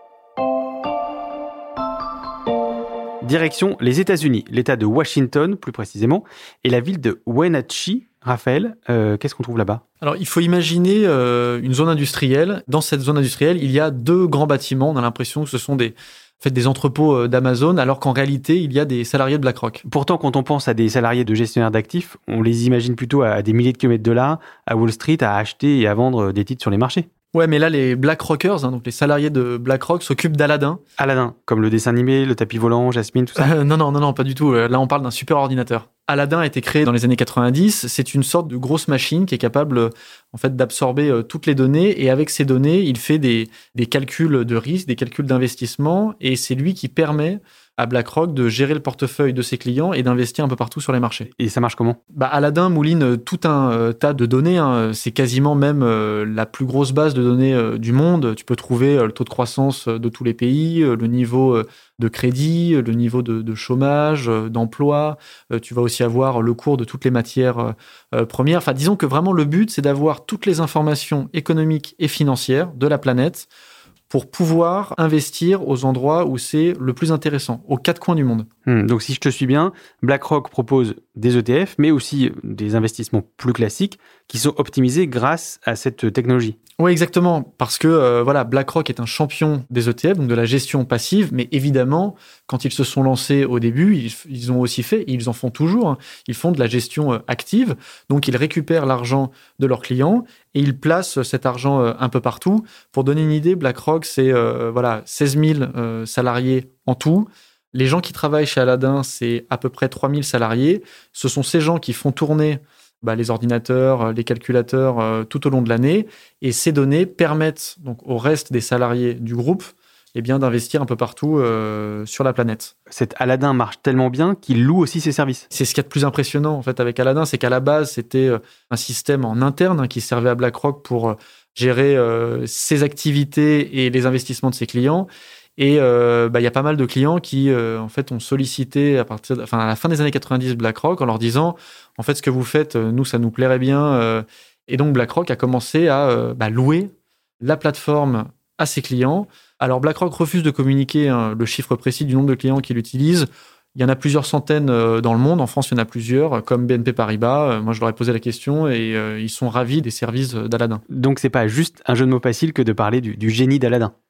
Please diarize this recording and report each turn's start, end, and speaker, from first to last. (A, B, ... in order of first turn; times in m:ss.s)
0:03.2-0:09.8 A
0:10.0-0:19.8 B
0:19.8-0:27.1 A
0:27.3-0:30.8 B
0:31.0-0:33.5 A
0:33.4-0:51.3 B
0:51.4-0:52.0 A
0:52.1-1:13.5 B
1:14.1-1:18.5 B
1:18.6-1:26.6 A
1:26.8-2:02.7 B
2:02.9-2:05.4 A
2:05.5-2:40.8 B
2:40.9-2:43.9 A